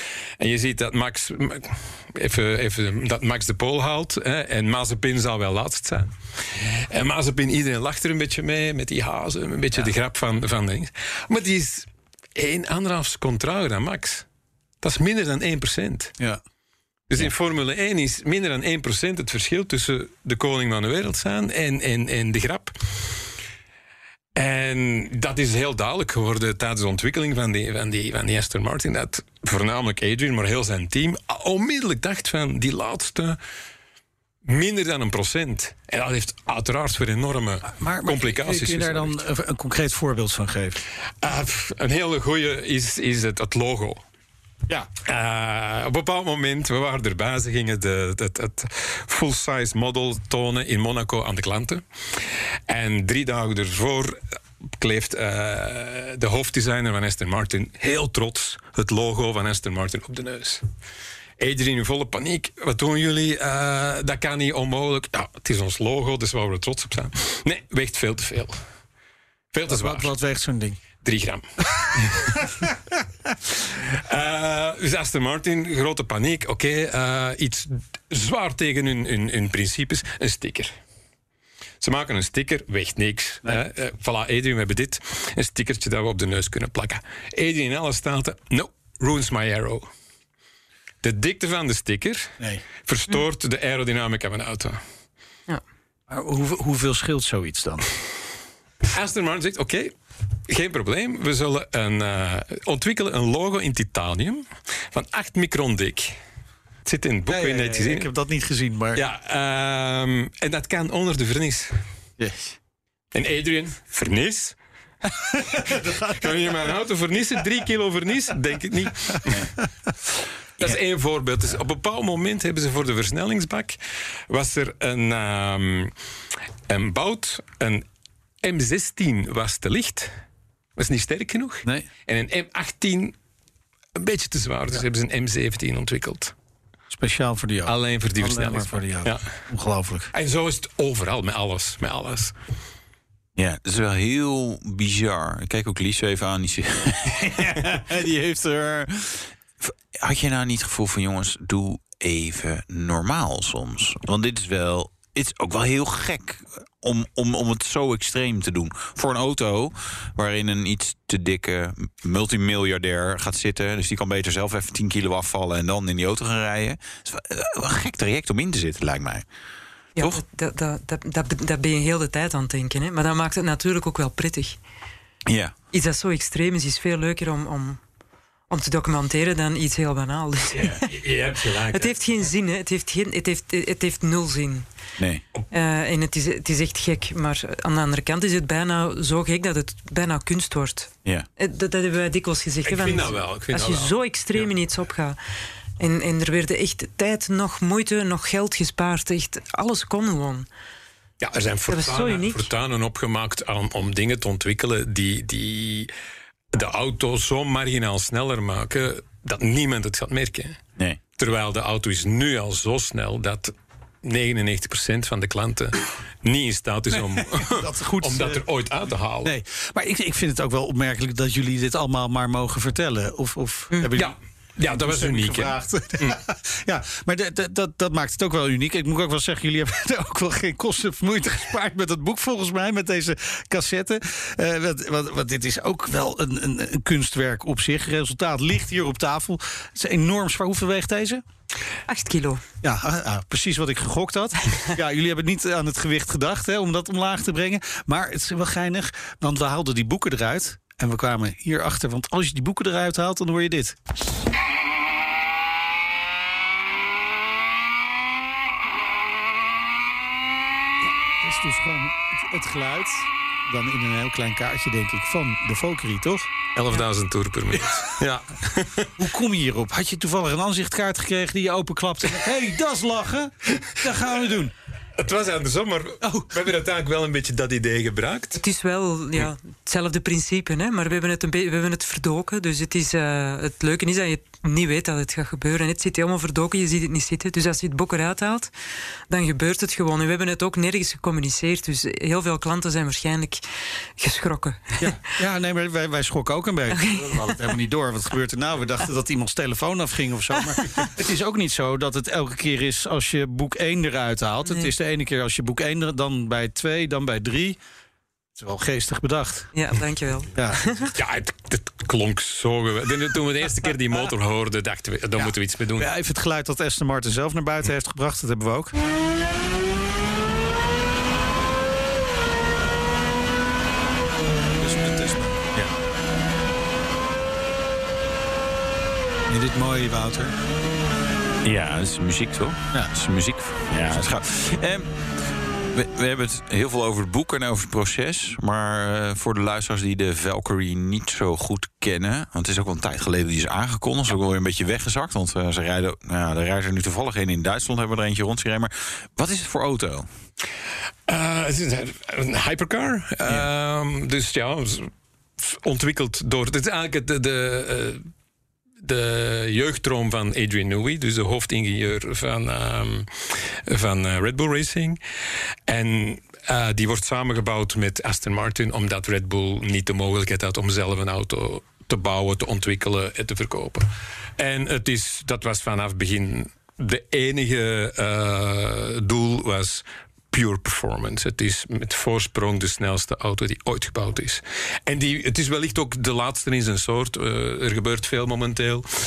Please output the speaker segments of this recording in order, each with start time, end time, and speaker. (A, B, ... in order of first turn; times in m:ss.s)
0:00.4-0:14.2 A
0:14.8-0:16.1 A
0:17.1-0:22.7 A
0:24.3-0:33.4 A
0:34.4-0:39.2 A
0:37.7-0:40.8 B
0:41.2-0:44.0 A
0:45.0-0:54.2 A
0:54.8-1:00.6 A
1:01.4-1:08.6 A
1:09.5-1:10.1 A
1:09.7-1:10.8 B
1:11.0-1:12.5 A
1:13.7-1:20.7 A
1:21.8-1:29.9 A
1:31.0-1:34.8 A
1:32.4-1:32.6 B
1:36.1-1:37.9 B
1:38.9-1:39.9 A
1:40.5-1:46.2 A
1:46.8-1:48.1 A
1:47.3-1:49.0 B
1:48.9-1:51.7 A
1:52.2-1:52.6 B
1:53.1-1:54.6 A
1:55.7-1:59.5 A
1:55.7-1:56.1 B
2:00.6-2:03.8 A
2:04.3-2:05.9 A
2:06.7-2:07.8 A
2:08.4-2:10.1 A
2:10.8-2:13.1 A
2:14.0-2:16.3 A
2:16.9-2:20.1 B
2:17.7-2:19.3 A
2:20.1-2:22.3 A
2:23.4-2:49.2 C
2:50.0-2:50.2 C
2:50.0-2:54.6 D
2:55.3-2:55.5 C
2:55.7-2:57.8 D
2:58.5-3:00.9 D
3:00.5-3:00.8 C
3:00.6-3:02.2 A
3:01.5-3:04.6 D
3:05.0-3:05.2 C
3:05.5-3:15.2 D
3:12.6-3:14.5 A
3:15.8-3:20.5 D
3:21.2-3:25.9 A
3:21.7-3:22.5 D
3:26.5-3:30.6 A
3:31.2-3:39.3 A
3:37.5-3:38.4 B
3:39.2-3:44.2 B
3:43.9-3:46.2 A
3:44.7-4:01.2 B
4:01.9-4:02.4 D
4:02.6-4:13.8 B
4:20.8-4:26.3 B
4:26.5-4:28.9 A
4:29.0-4:34.5 B
4:35.0-4:38.4 A
4:36.0-4:36.3 B
4:38.4-4:48.5 D
4:49.1-4:53.4 D
4:54.0-4:54.9 D
4:54.8-5:07.6 B
4:56.7-4:57.5 D
5:04.4-5:04.7 D
5:08.4-5:09.5 B
5:09.5-5:10.9 D
5:10.3-5:10.9 B
5:10.9-5:15.9 A
5:15.2-5:18.7 B
5:24.6-5:25.5 B
5:29.3-5:30.3 B
5:31.4-5:34.9 C
5:35.7-5:50.1 C
5:51.1-5:58.1 A
5:58.8-6:05.0 A
6:05.7-6:13.8 A
6:14.4-6:28.9 A